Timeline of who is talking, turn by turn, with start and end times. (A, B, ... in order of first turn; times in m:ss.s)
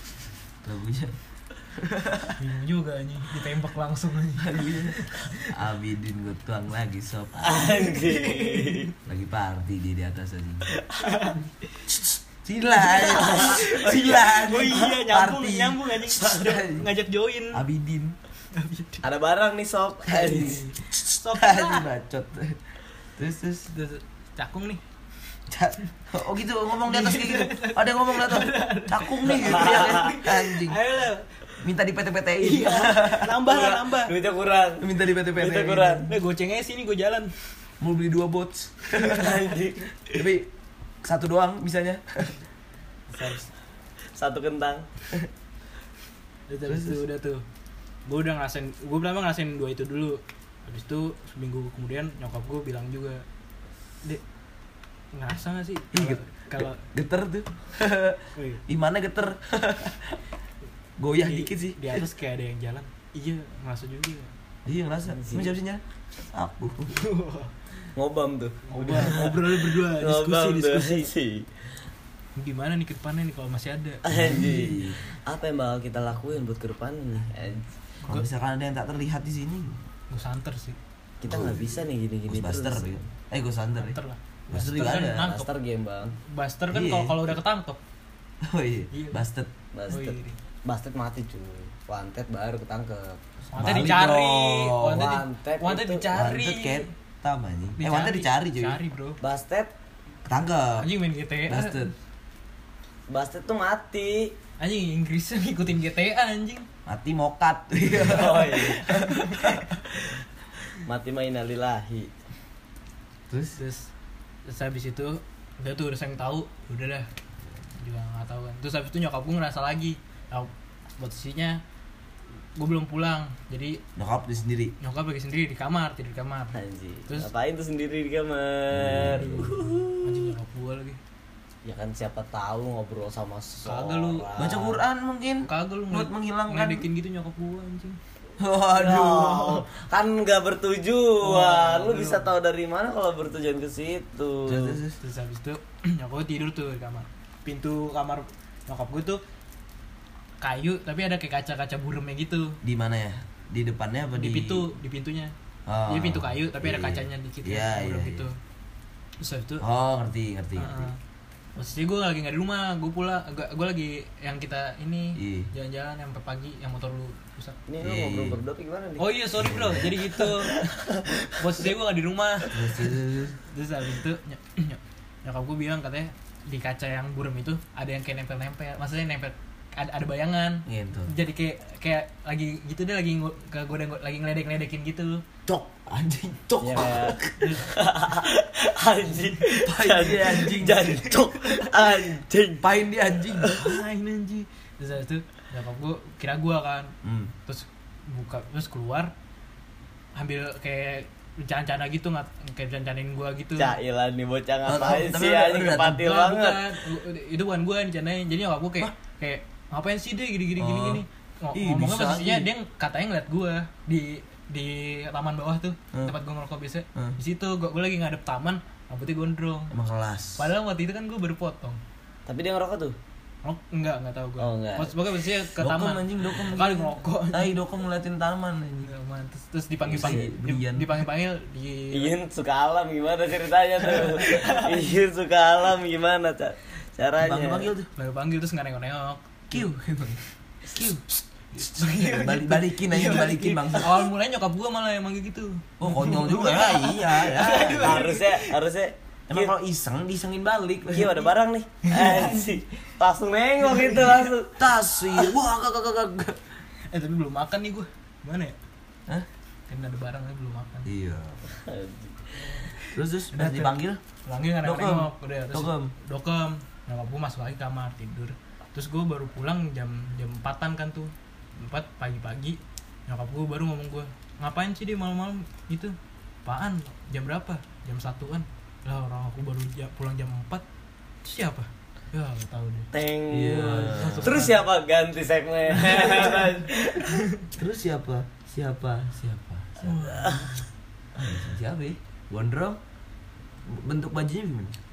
0:00.6-0:01.2 A
0:01.7-0:02.4 A
0:02.4-0:05.5 B
0:04.4-0:07.8 A
0:07.4-0:08.9 C
0:07.8-0:08.9 B
0:09.1-0:10.8 A
0:11.0-0:11.4 B
0:12.4-0:16.9 A
0:12.8-0:17.6 B
0:13.1-0:13.9 C
0:17.5-0:18.2 A
0:18.5-0:19.0 B
0:19.0-0:20.6 C
0:20.1-0:22.6 A
0:20.4-0:21.9 B
0:23.2-0:23.7 A
0:23.7-0:24.8 B
0:25.5-0:30.8 A
0:26.8-0:31.3 B
0:29.7-0:30.0 C
0:31.6-0:33.8 A
0:32.4-0:34.1 B
0:33.6-0:36.1 C
0:34.8-0:36.1 A
0:36.1-0:37.6 B
0:37.8-0:39.4 A
0:39.0-0:40.0 C
0:40.1-0:40.5 A
0:41.0-0:42.4 A
0:43.2-0:43.4 C
0:44.1-0:44.9 C
0:46.5-0:47.4 B
0:46.7-0:47.0 A
0:48.1-0:53.2 B
0:55.1-0:56.8 B
0:55.9-1:00.2 A
0:58.3-0:58.6 B
1:01.0-1:02.0 A
1:01.2-1:04.3 B
1:04.7-1:07.0 A
1:05.1-1:05.5 C
1:06.9-1:07.9 B
1:08.0-1:11.5 C
1:08.7-1:11.1 B
1:12.4-1:14.4 B
1:14.0-1:17.7 C
1:14.1-1:15.0 A
1:18.1-1:19.8 A
1:20.1-1:20.8 B
1:21.2-1:23.0 C
1:21.3-1:24.0 A
1:23.8-1:25.5 B
1:24.5-1:25.3 A
1:25.2-1:26.2 C
1:26.3-1:27.8 B
1:26.7-1:27.4 A
1:28.4-1:29.5 A
1:28.9-1:29.2 B
1:29.7-1:33.7 C
1:29.9-1:30.4 B
1:33.5-1:36.9 B
1:33.6-1:35.1 A
1:34.9-1:36.1 C
1:36.1-1:38.8 A
1:37.8-1:39.2 B
1:39.2-1:39.7 C
1:40.3-1:40.9 A
1:40.8-1:41.9 B
1:41.5-1:41.9 A
1:43.1-1:44.4 C
1:44.6-1:46.7 B
1:46.9-1:49.8 A
1:48.0-1:48.8 C
1:48.5-1:49.7 B
1:50.8-1:52.1 C
1:53.3-1:53.6 A
1:53.6-1:53.9 B
1:54.4-1:57.1 B
1:57.8-2:01.6 B
2:02.6-2:03.8 B
2:04.0-2:04.8 A
2:04.8-2:07.3 B
2:06.5-2:09.8 C
2:08.7-2:09.8 A
2:09.4-2:11.0 B
2:11.6-2:14.8 C
2:13.6-2:14.3 B
2:14.4-2:16.9 A
2:15.4-2:18.0 B
2:18.4-2:19.6 A
2:18.7-2:24.8 C
2:21.2-2:22.3 B
2:24.5-2:25.0 A
2:25.0-2:29.2 B
2:30.4-2:32.6 B
2:32.6-2:34.7 A
2:34.2-2:35.3 B
2:35.7-2:38.3 A
2:35.9-2:38.4 B
2:39.2-2:39.7 B
2:39.6-2:40.9 A
2:40.6-2:41.0 B
2:41.6-2:47.6 B
2:45.2-2:45.5 A
2:47.7-2:49.1 C
2:47.8-2:48.4 A
2:49.0-2:50.8 B
2:49.4-2:49.9 A
2:50.4-2:51.2 C
2:51.4-2:52.9 B
2:52.5-2:53.4 A
2:53.5-3:05.2 B
3:00.7-3:01.1 A
3:05.5-3:07.6 A
3:06.6-3:12.6 C
3:07.4-3:07.7 B
3:09.6-3:11.1 A
3:12.6-3:13.6 A
3:13.2-3:13.6 C
3:13.5-3:17.0 B
3:17.0-3:17.3 A
3:17.5-3:19.1 B
3:20.2-3:23.8 B
3:23.6-3:26.8 C
3:24.6-3:26.1 A
3:25.8-3:39.7 B
3:30.6-3:32.5 A
3:39.7-3:40.5 A
3:40.4-3:41.8 B
3:42.3-3:43.0 C
3:43.4-3:47.6 B
3:44.4-3:45.0 C
3:45.6-3:48.9 A
3:48.8-3:52.1 B
3:49.8-3:50.9 A
3:50.0-3:50.3 C
3:51.9-3:57.7 C
3:54.0-3:54.9 B
3:57.2-3:57.9 A
3:58.0-4:00.9 B
3:59.5-4:04.1 A
4:01.6-4:08.5 B
4:05.8-4:08.2 A
4:07.6-4:09.5 C
4:09.3-4:11.3 A
4:10.9-4:14.6 C
4:11.8-4:12.6 B
4:13.7-4:14.1 B
4:14.6-4:16.6 A
4:16.9-4:18.6 B
4:19.7-4:20.9 B
4:20.9-4:21.4 A
4:21.5-4:22.7 C
4:22.5-4:40.6 B
4:22.9-4:24.0 A
4:24.6-4:25.9 A
4:41.2-4:42.9 B
4:42.9-4:47.2 C
4:43.3-4:44.4 A
4:43.8-4:44.6 B
4:45.8-4:46.4 B
4:47.0-4:47.4 B
4:47.5-4:50.4 A
4:49.8-4:50.7 B
4:50.1-4:50.5 C
4:51.2-4:52.8 A
4:53.7-4:54.8 A